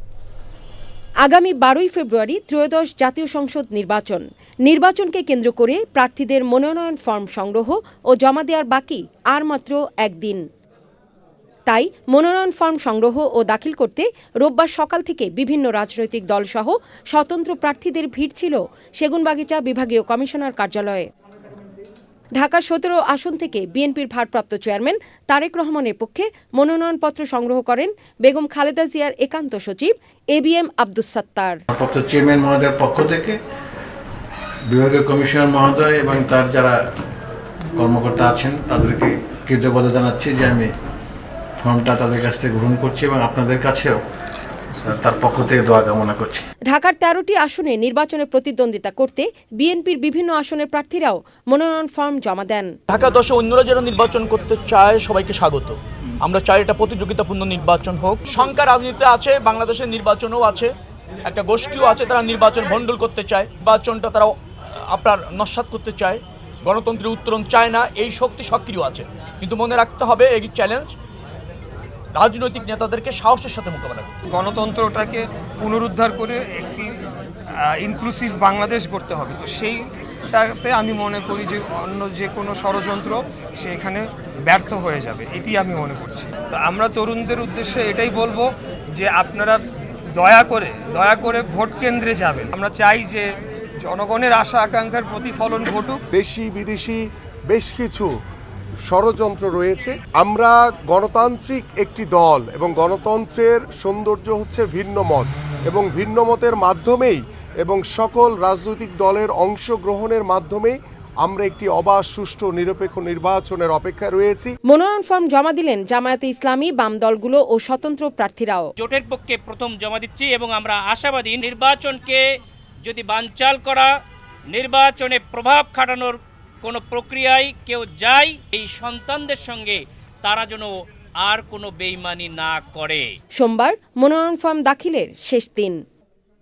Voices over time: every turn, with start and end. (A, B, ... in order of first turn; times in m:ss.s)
0:01.2-0:10.4 A
0:11.7-0:21.1 A
0:22.3-0:31.6 A
0:31.7-0:33.4 B
0:34.7-0:36.8 B
0:37.8-0:40.7 B
0:41.6-0:44.0 B
0:44.8-0:46.4 B
0:46.7-0:52.7 A
0:52.9-1:00.7 C
1:01.2-1:04.4 C
1:04.9-1:10.9 C
1:12.1-1:14.1 C
1:14.3-1:16.9 D
1:17.6-1:19.8 D
1:20.3-1:29.6 D
1:30.1-1:33.2 D
1:33.8-1:36.0 D
1:36.1-1:38.1 E
1:38.9-1:54.5 E
1:54.7-1:58.7 A
1:58.8-2:02.2 F
2:02.8-2:03.9 F
2:04.5-2:13.1 F
2:13.3-2:15.8 A